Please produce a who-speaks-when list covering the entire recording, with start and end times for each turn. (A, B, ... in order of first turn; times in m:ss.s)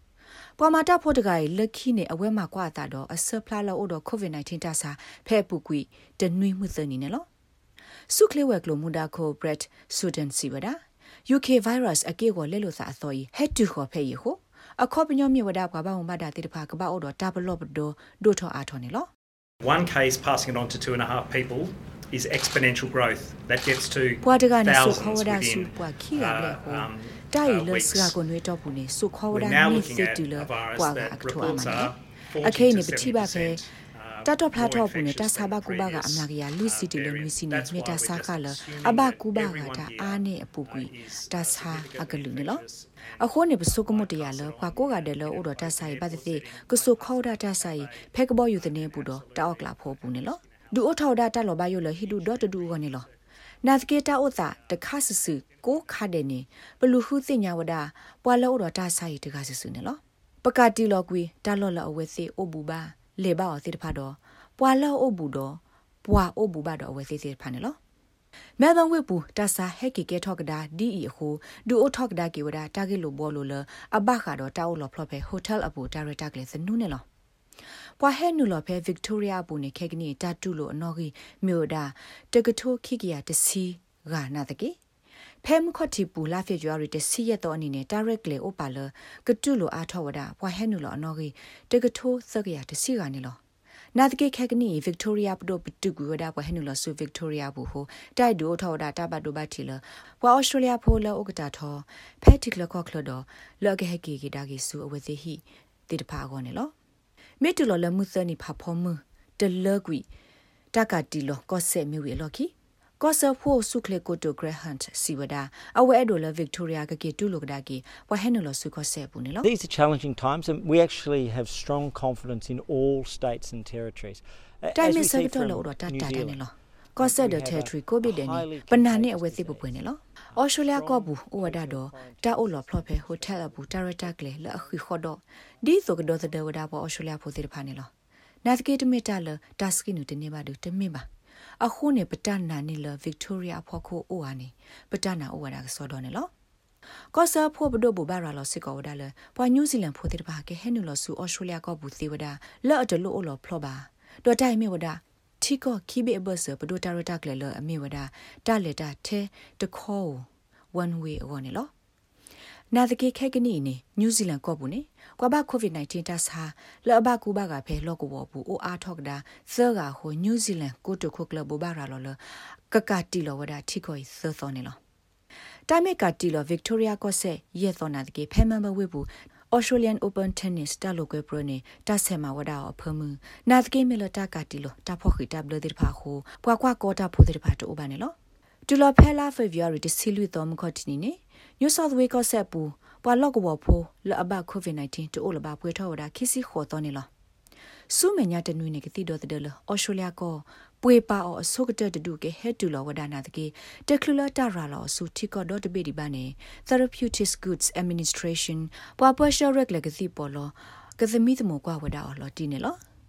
0:00.6-0:07.3 A
0:08.1-0:19.1 A
0:19.6-0:28.2 B
0:24.2-0:33.6 A
0:29.3-0:51.1 B
0:34.2-0:42.6 A
0:43.2-0:53.1 A
0:52.0-0:53.1 B
0:53.6-1:07.8 A
0:54.4-0:56.0 B
1:08.6-1:17.0 A
1:18.0-1:24.8 A
1:25.4-1:33.4 A
1:34.0-1:46.7 A
1:47.4-1:50.0 A
1:50.7-1:59.5 A
1:59.4-2:06.4 C
2:04.8-2:17.9 A
2:06.9-2:14.8 C
2:18.4-2:21.1 A
2:21.6-2:26.3 A
2:27.1-2:41.7 A
2:42.7-2:52.2 A
2:52.7-2:54.8 A
2:55.7-3:08.2 A
3:08.7-3:17.1 A
3:17.9-3:32.8 A